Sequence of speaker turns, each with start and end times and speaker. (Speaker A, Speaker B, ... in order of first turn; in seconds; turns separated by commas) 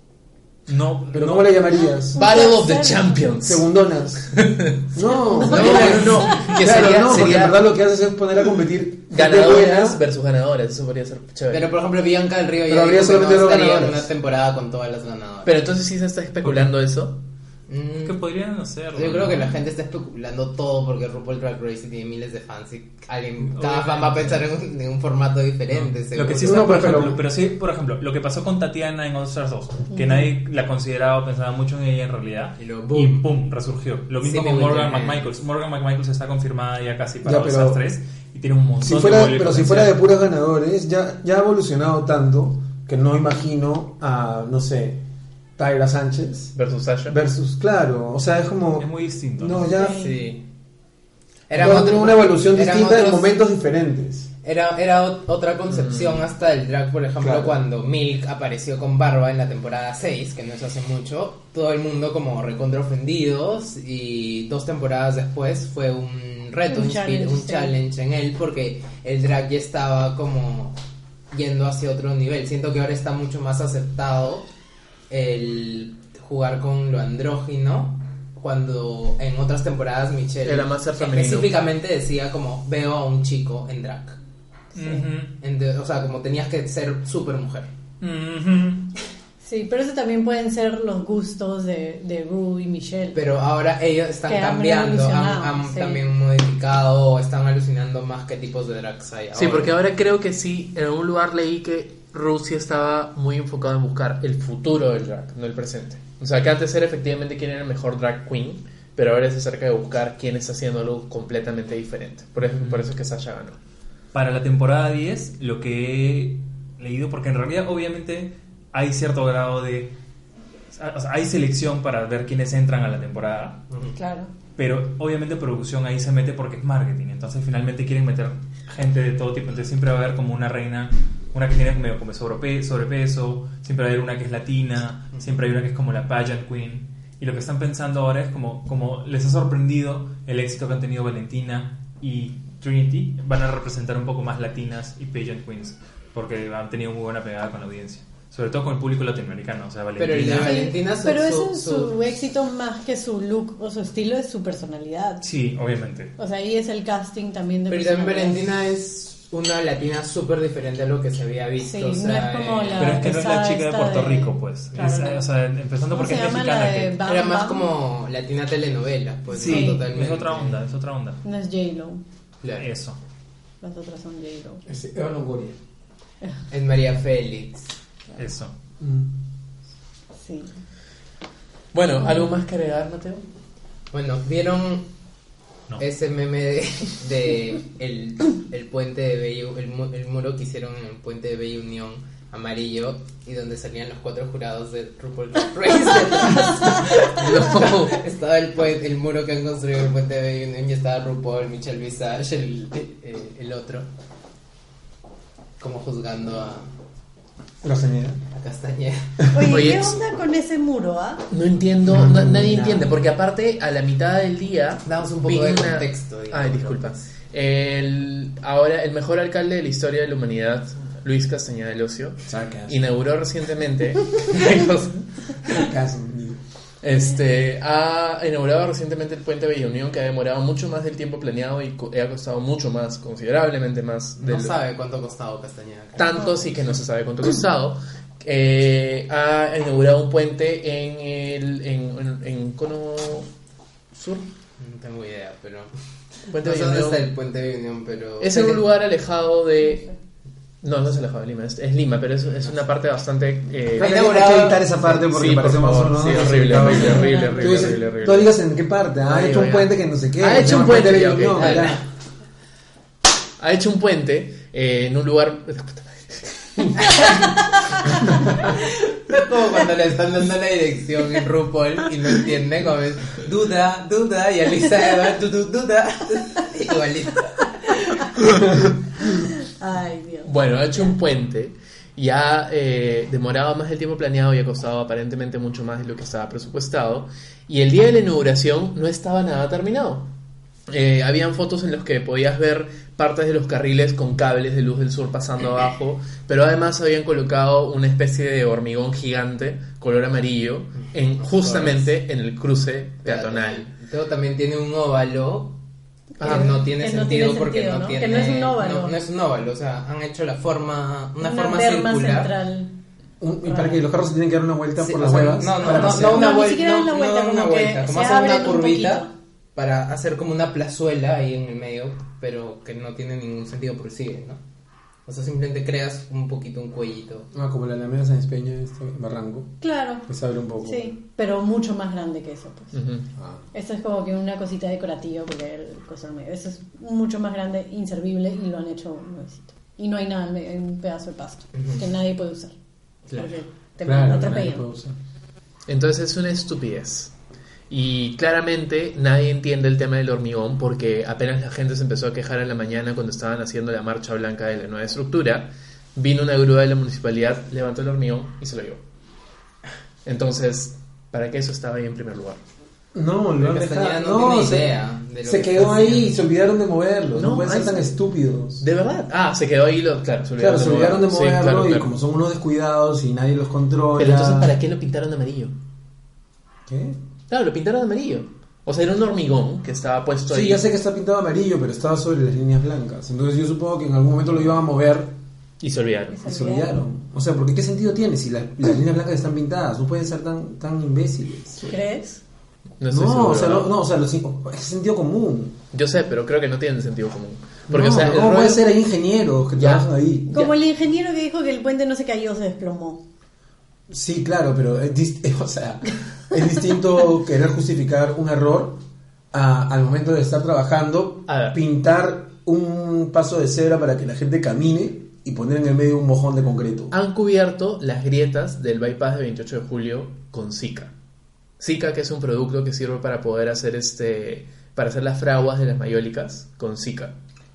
Speaker A: 0.7-1.6, Speaker B: 1.1-2.2, Speaker C: 2.1-3.2, Speaker D: 2.1-3.6, Speaker B: 3.4-10.0, Speaker D: 4.4-4.7, Speaker C: 5.2-5.7, Speaker D: 5.4-7.6, Speaker E: 5.5-6.3, Speaker D: 9.1-11.7, Speaker E: 11.5-15.6, Speaker B: 12.7-14.1, Speaker D: 15.4-17.2, Speaker E: 17.7-18.2, Speaker A: 18.0-19.6, Speaker E: 18.9-27.2, Speaker A: 23.5-24.5, Speaker A: 25.7-40.0, Speaker B: 26.4-27.2, Speaker C: 29.9-30.2, Speaker E: 32.6-33.3, Speaker E: 34.2-35.3, Speaker B: 37.2-37.8, Speaker B: 38.8-45.0, Speaker B: 45.6-46.5, Speaker D: 46.5-47.2, Speaker B: 47.1-50.0, Speaker A: 48.8-49.7, Speaker C: 49.7-50.2, Speaker E: 49.9-50.4, Speaker E: 51.5-53.3, Speaker B: 51.5-54.3, Speaker E: 54.4-70.8, Speaker D: 55.7-56.2, Speaker B: 57.2-57.6, Speaker C: 66.7-67.8, Speaker E: 71.3-74.5, Speaker E: 75.1-84.2, Speaker D: 80.4-81.6, Speaker C: 84.7-85.1, Speaker A: 84.7-85.3, Speaker E: 85.4-87.7, Speaker A: 88.0-88.9, Speaker C: 89.4-93.2, Speaker E: 93.1-99.7, Speaker C: 94.2-96.0, Speaker D: 99.3-113.6, Speaker A: 112.4-112.9, Speaker A: 114.1-119.9, Speaker A: 120.7-123.6, Speaker E: 123.7-124.0, Speaker C: 124.0-124.3, Speaker A: 124.5-150.7, Speaker E: 150.0-151.9, Speaker C: 150.4-155.2, Speaker A: 155.2-156.1, Speaker C: 156.2-158.4, Speaker E: 157.7-163.1, Speaker C: 161.6-165.2, Speaker A: 162.8-167.0, Speaker C: 165.9-167.7, Speaker E: 167.0-170.6, Speaker A: 169.3-171.2, Speaker C: 169.4-169.8, Speaker C: 171.2-172.0, Speaker E: 172.4-172.7, Speaker A: 172.6-173.0, Speaker C: 173.6-174.6, Speaker B: 174.7-175.6, Speaker E: 176.5-177.7, Speaker A: 178.2-178.5, Speaker B: 178.8-179.1, Speaker C: 180.2-180.5, Speaker D: 181.7-183.2, Speaker E: 183.9-184.9, Speaker E: 185.8-203.9, Speaker D: 197.1-198.0, Speaker E: 205.6-206.7, Speaker B: 207.6-208.2, Speaker E: 208.3-209.3, Speaker C: 209.3-211.2, Speaker D: 209.3-210.0, Speaker D: 211.3-225.7, Speaker B: 211.9-212.9, Speaker E: 214.8-217.1, Speaker B: 222.2-222.9, Speaker B: 225.4-226.4, Speaker D: 226.8-234.6, Speaker E: 234.2-236.4, Speaker D: 235.9-243.3, Speaker D: 243.9-244.3, Speaker E: 244.6-245.7, Speaker D: 246.3-247.1, Speaker E: 246.3-248.6, Speaker D: 248.2-249.8, Speaker C: 249.6-249.9, Speaker D: 250.6-254.1, Speaker B: 253.8-261.8, Speaker E: 253.8-255.0, Speaker D: 254.9-258.3, Speaker C: 256.7-257.5, Speaker D: 259.1-261.8, Speaker E: 261.4-261.8, Speaker D: 263.4-267.2, Speaker D: 267.9-268.2, Speaker E: 268.4-278.1, Speaker C: 279.0-280.9, Speaker D: 280.2-290.1, Speaker D: 290.7-303.7, Speaker E: 301.2-301.9, Speaker E: 303.0-305.6, Speaker C: 306.2-309.0, Speaker D: 306.2-306.6, Speaker E: 306.2-312.3, Speaker C: 311.2-312.7, Speaker B: 313.2-316.4, Speaker C: 313.4-313.8, Speaker E: 314.8-324.4, Speaker C: 315.6-319.1, Speaker E: 325.1-327.3, Speaker B: 327.3-330.9, Speaker C: 329.6-330.1, Speaker C: 330.6-332.8, Speaker D: 332.7-333.1, Speaker B: 333.1-333.4, Speaker C: 333.5-342.5, Speaker E: 341.5-341.8, Speaker C: 343.1-344.7, Speaker B: 343.8-344.9, Speaker D: 345.7-347.1, Speaker D: 347.7-358.8, Speaker D: 360.0-362.4, Speaker B: 362.9-368.6, Speaker E: 363.4-366.2, Speaker D: 367.1-367.9, Speaker D: 368.6-371.9, Speaker B: 370.4-374.6, Speaker D: 374.0-375.6, Speaker B: 376.7-377.0, Speaker D: 377.3-380.6, Speaker B: 380.3-385.1, Speaker D: 385.6-386.2, Speaker C: 386.1-386.8, Speaker B: 386.2-391.7, Speaker C: 391.6-392.2, Speaker D: 392.8-393.7, Speaker B: 392.9-395.6, Speaker D: 395.7-398.6, Speaker B: 397.7-400.4, Speaker D: 399.6-400.5, Speaker C: 400.3-403.0, Speaker B: 403.9-408.8, Speaker B: 409.3-416.9, Speaker D: 411.3-411.6, Speaker D: 416.9-420.9, Speaker D: 421.6-427.1